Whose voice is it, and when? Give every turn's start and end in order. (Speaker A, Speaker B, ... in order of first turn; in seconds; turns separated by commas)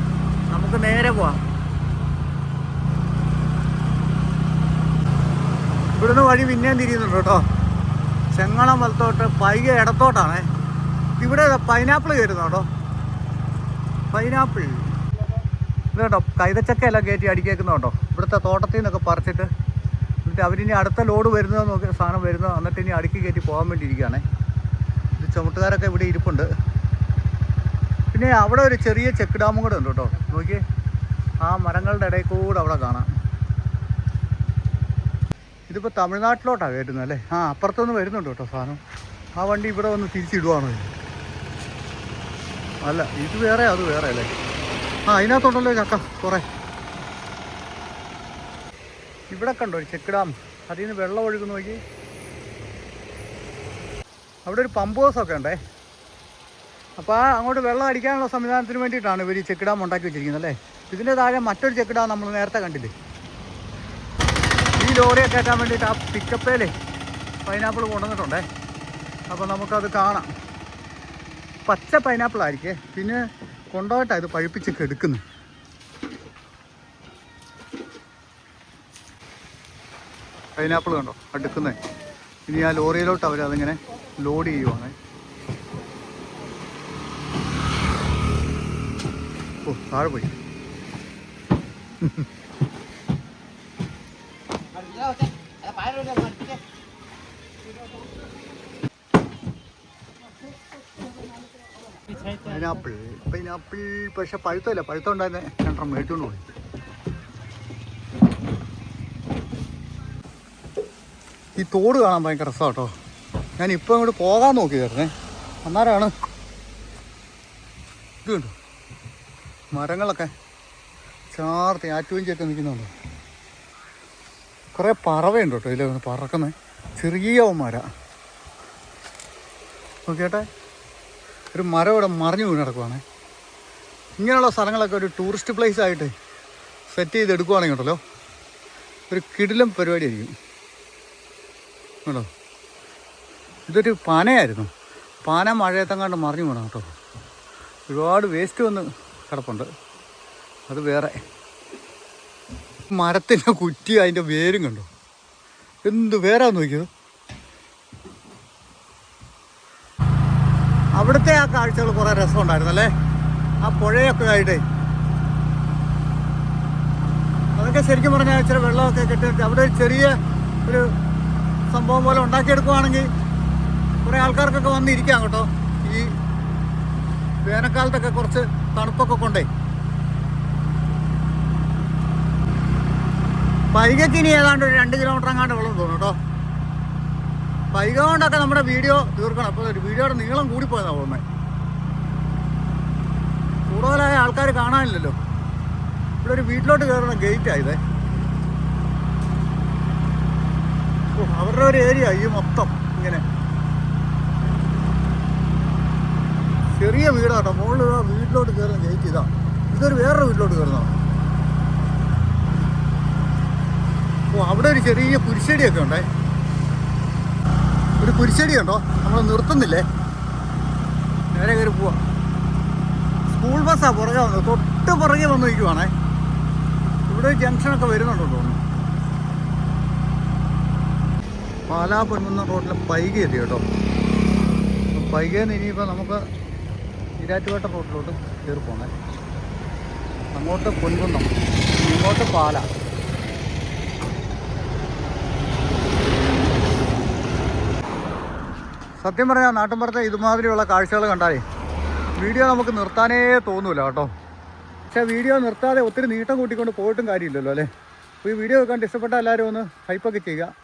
Speaker A: 0.5-1.4, Speaker A: 6.0-7.4, Speaker A: 8.3-10.4, Speaker A: 11.2-12.7, Speaker A: 14.1-14.9, Speaker A: 15.9-19.5, Speaker A: 20.2-24.2, Speaker A: 25.2-26.5, Speaker A: 28.1-30.6, Speaker A: 31.4-33.1, Speaker A: 35.7-38.8, Speaker A: 39.4-40.9, Speaker A: 42.8-44.3, Speaker A: 45.1-46.4, Speaker A: 49.3-51.8, Speaker A: 54.5-55.6, Speaker A: 57.0-62.9, Speaker A: 64.8-66.7, Speaker A: 67.5-68.5, Speaker A: 69.3-70.3, Speaker A: 71.7-75.2, Speaker A: 80.6-81.8, Speaker A: 82.5-84.9, Speaker A: 89.6-90.3, Speaker A: 102.4-106.4, Speaker A: 111.6-112.9, Speaker A: 113.6-115.1, Speaker A: 115.6-116.1, Speaker A: 118.2-118.5, Speaker A: 119.7-120.3, Speaker A: 121.3-122.9, Speaker A: 124.7-127.9, Speaker A: 130.1-130.4, Speaker A: 131.5-133.0, Speaker A: 134.2-136.1, Speaker A: 136.9-138.0, Speaker A: 139.1-140.3, Speaker A: 143.7-144.7, Speaker A: 145.2-146.9, Speaker A: 147.9-149.7, Speaker A: 150.7-151.2, Speaker A: 152.9-154.9, Speaker A: 155.8-156.9, Speaker A: 161.0-162.9, Speaker A: 163.6-164.6, Speaker A: 167.6-170.9, Speaker A: 171.7-173.1, Speaker A: 174.0-176.1, Speaker A: 177.4-179.5, Speaker A: 183.7-186.2, Speaker A: 187.7-191.2, Speaker A: 193.7-195.2, Speaker A: 196.2-197.8, Speaker A: 201.1-203.2, Speaker A: 206.7-211.0, Speaker A: 214.3-216.1, Speaker A: 218.0-219.8, Speaker A: 221.3-222.0, Speaker A: 223.3-225.9, Speaker A: 227.1-228.6, Speaker A: 231.7-233.6, Speaker A: 234.9-236.2, Speaker A: 237.2-238.9, Speaker A: 240.3-242.6, Speaker A: 249.0-251.4, Speaker A: 252.2-254.1, Speaker A: 254.9-257.7, Speaker A: 258.2-260.5